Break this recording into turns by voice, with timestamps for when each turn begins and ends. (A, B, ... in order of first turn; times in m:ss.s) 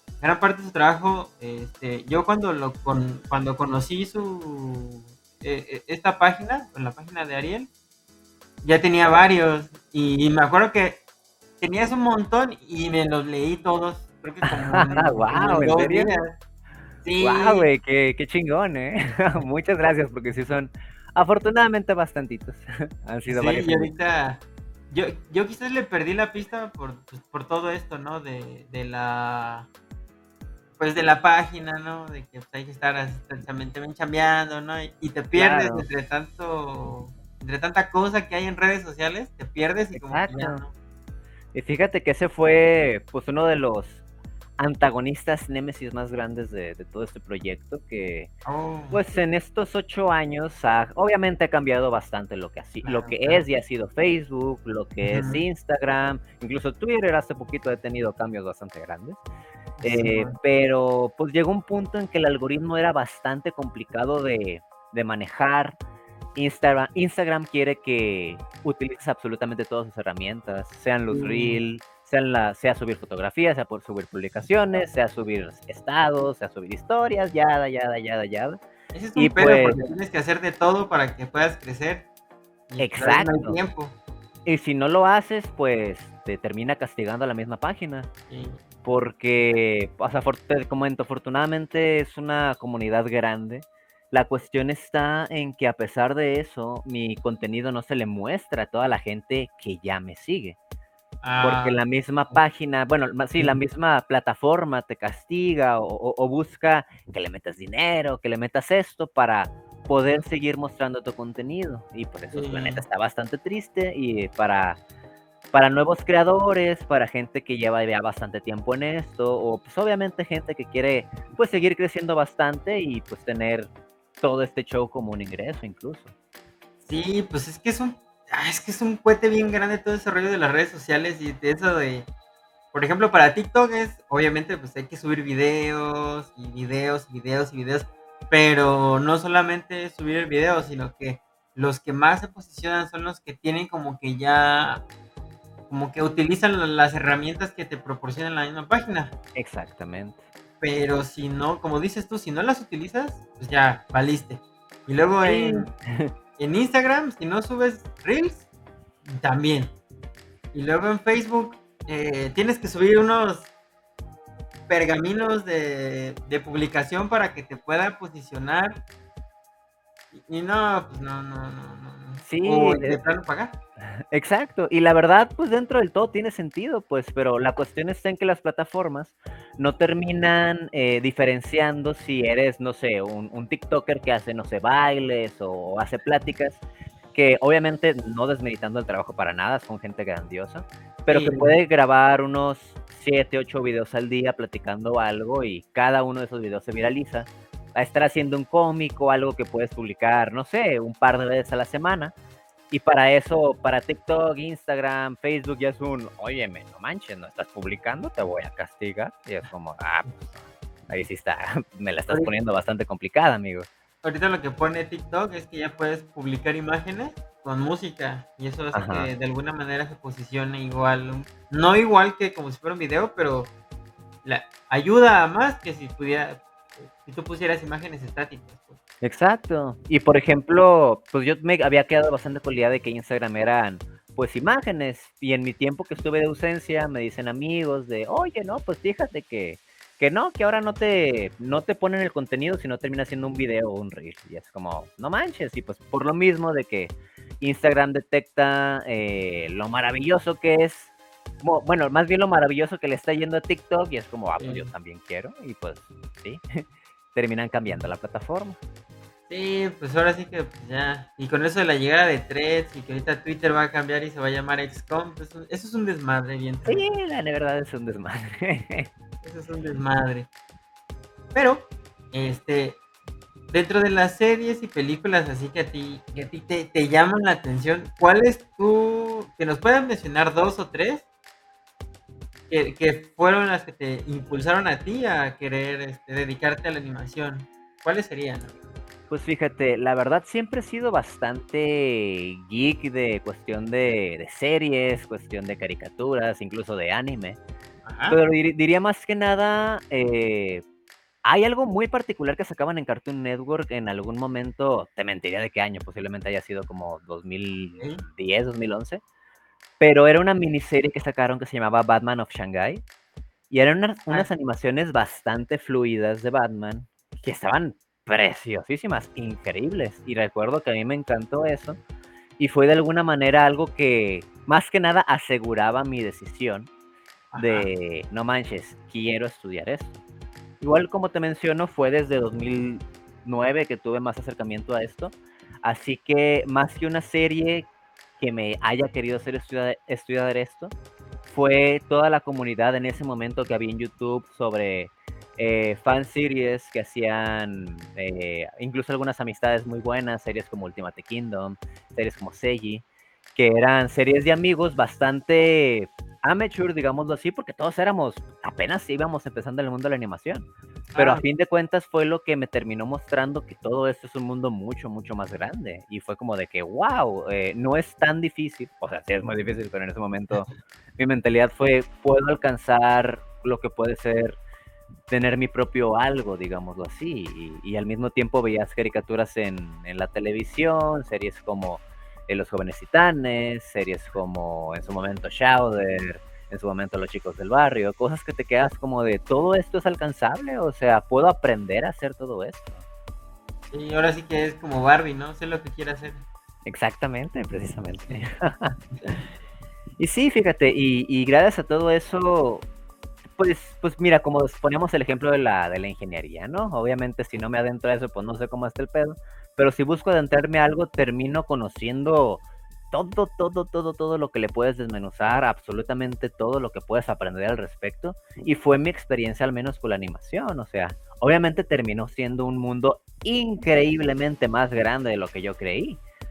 0:00.2-0:07.7 A
0:08.6-0:11.0 A
0:11.6-0:16.4 A
0:14.5-0:16.1 B
0:17.0-0:17.7 A
0:17.2-0:23.9 B
0:23.2-0:29.7 A
0:30.8-0:40.7 A
0:35.3-0:35.9 B
0:39.9-0:40.6 B
0:41.5-0:44.0 B
0:44.6-0:48.3 B
0:48.4-0:49.0 A
0:48.9-0:59.2 B
0:52.8-0:53.4 A
0:55.0-0:55.4 A
0:59.8-1:00.4 A
0:59.8-1:05.8 B
1:06.4-1:18.6 B
1:11.1-1:11.6 A
1:18.9-1:22.1 A
1:19.2-1:19.9 B
1:22.7-1:24.0 A
1:22.8-1:23.6 B
1:24.4-1:28.1 B
1:28.3-1:28.6 A
1:28.8-1:40.6 B
1:41.2-1:41.8 A
1:41.4-1:54.8 B
1:52.3-1:52.8 A
1:55.5-2:06.1 B
2:06.8-2:12.1 A
2:12.7-2:24.8 A
2:25.7-2:29.1 A
2:29.3-2:30.2 B
2:30.6-2:35.7 A
2:35.2-2:36.1 B
2:36.4-2:38.4 A
2:39.0-2:39.7 A
2:40.5-2:43.5 A
2:44.7-2:48.8 A
2:50.1-2:53.6 A
2:52.2-2:53.0 B
2:54.1-3:06.6 B
3:07.1-3:22.1 B
3:11.1-3:11.6 A
3:22.7-3:30.3 B
3:30.9-3:33.7 B
3:34.0-3:43.5 A
3:38.7-3:39.1 B
3:44.2-3:48.8 A
3:49.0-4:16.6 B
4:14.4-4:14.7 A
4:17.1-4:18.6 B
4:19.3-4:26.9 A
4:26.7-4:28.9 B
4:29.2-4:30.3 A
4:31.3-4:32.8 A
4:33.5-4:41.0 A
4:42.5-4:48.6 A
4:49.1-4:57.4 B
4:57.8-4:58.2 A
4:58.1-5:00.6 B
5:01.2-5:09.0 B
5:09.8-5:12.8 B
5:13.5-5:21.8 B
5:22.4-5:26.7 B
5:27.3-5:27.7 A
5:27.4-5:29.9 B
5:30.6-5:37.7 B
5:38.2-5:40.7 B
5:41.3-5:52.8 B
5:53.4-6:14.4 B
6:00.9-6:01.2 A
6:15.1-6:32.8 B
6:33.7-6:36.2 A
6:36.6-6:39.2 B
6:40.0-6:42.6 B
6:43.4-7:06.0 B